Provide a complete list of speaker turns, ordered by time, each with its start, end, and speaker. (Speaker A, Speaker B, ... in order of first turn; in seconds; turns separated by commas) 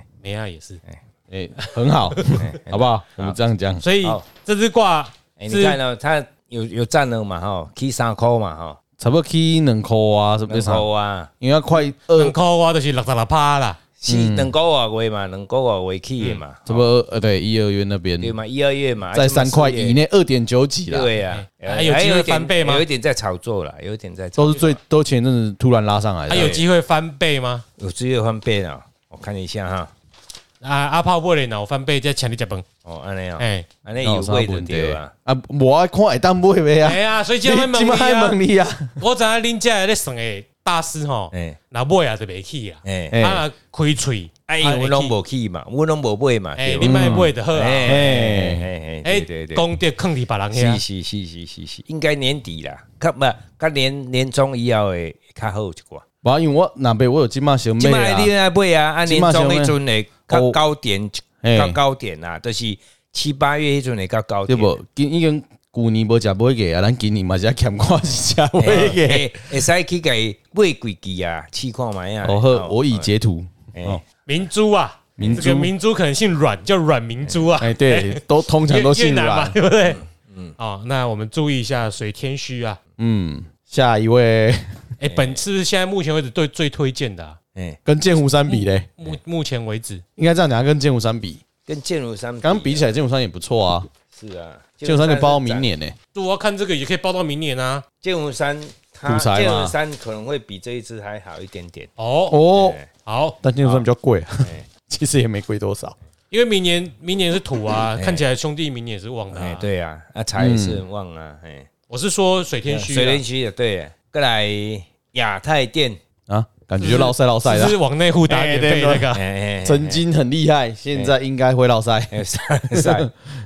Speaker A: 0.2-0.8, Speaker B: 1.3-3.8, Speaker C: 2.4-3.4, Speaker A: 3.8-5.8, Speaker C: 5.4-8.8, Speaker B: 9.0-10.8, Speaker C: 10.5-11.3, Speaker B: 11.4-12.3, Speaker A: 12.1-13.8, Speaker C: 14.0-16.9, Speaker B: 14.1-14.5, Speaker B: 16.7-18.4, Speaker C: 18.2-20.0, Speaker B: 19.1-21.1, Speaker C: 20.9-24.8, Speaker A: 21.3-22.9, Speaker B: 24.4-26.5, Speaker A: 26.3-27.6, Speaker C: 26.3-26.7, Speaker C: 27.8-29.9, Speaker A: 30.6-32.6, Speaker C: 32.9-35.1, Speaker A: 33.4-33.7, Speaker B: 34.0-39.0, Speaker A: 36.8-38.4, Speaker A: 39.0-45.1, Speaker C: 41.3-41.6, Speaker C: 42.9-43.2, Speaker B: 43.1-43.5, Speaker C: 44.5-49.7, Speaker A: 46.6-48.1, Speaker B: 46.8-47.3, Speaker B: 47.9-48.7, Speaker A: 49.0-50.8, Speaker C: 50.5-56.0, Speaker B: 56.2-58.3, Speaker C: 57.8-64.8, Speaker B: 59.0-59.8, Speaker B: 60.3-60.6, Speaker B: 61.4-61.8, Speaker B: 64.5-69.5, Speaker C: 68.6-73.1, Speaker B: 72.2-74.0, Speaker C: 73.7-74.0, Speaker A: 74.3-80.0, Speaker B: 75.2-75.7, Speaker B: 77.6-79.6, Speaker C: 79.9-80.6, Speaker A: 80.6-82.8, Speaker B: 83.0-84.8, Speaker A: 85.0-87.4, Speaker C: 85.1-85.4, Speaker C: 87.5-87.8, Speaker B: 87.9-88.9, Speaker A: 88.5-90.0, Speaker B: 90.2-91.4, Speaker C: 91.7-92.9, Speaker B: 92.4-93.9, Speaker C: 94.1-95.7, Speaker B: 94.8-96.0, Speaker A: 96.1-97.8, Speaker C: 98.0-101.9, Speaker B: 99.0-99.8, Speaker A: 102.0-102.4, Speaker B: 102.3-102.8, Speaker C: 102.5-102.9, Speaker A: 103.0-103.8, Speaker B: 103.4-106.0, Speaker A: 106.3-109.7, Speaker C: 108.0-108.2, Speaker C: 109.3-111.7, Speaker B: 110.4-110.8, Speaker A: 111.9-113.2, Speaker C: 112.7-116.0, Speaker B: 116.3-119.1, Speaker A: 116.8-119.2, Speaker C: 119.1-120.0, Speaker B: 119.6-123.3, Speaker C: 122.1-123.1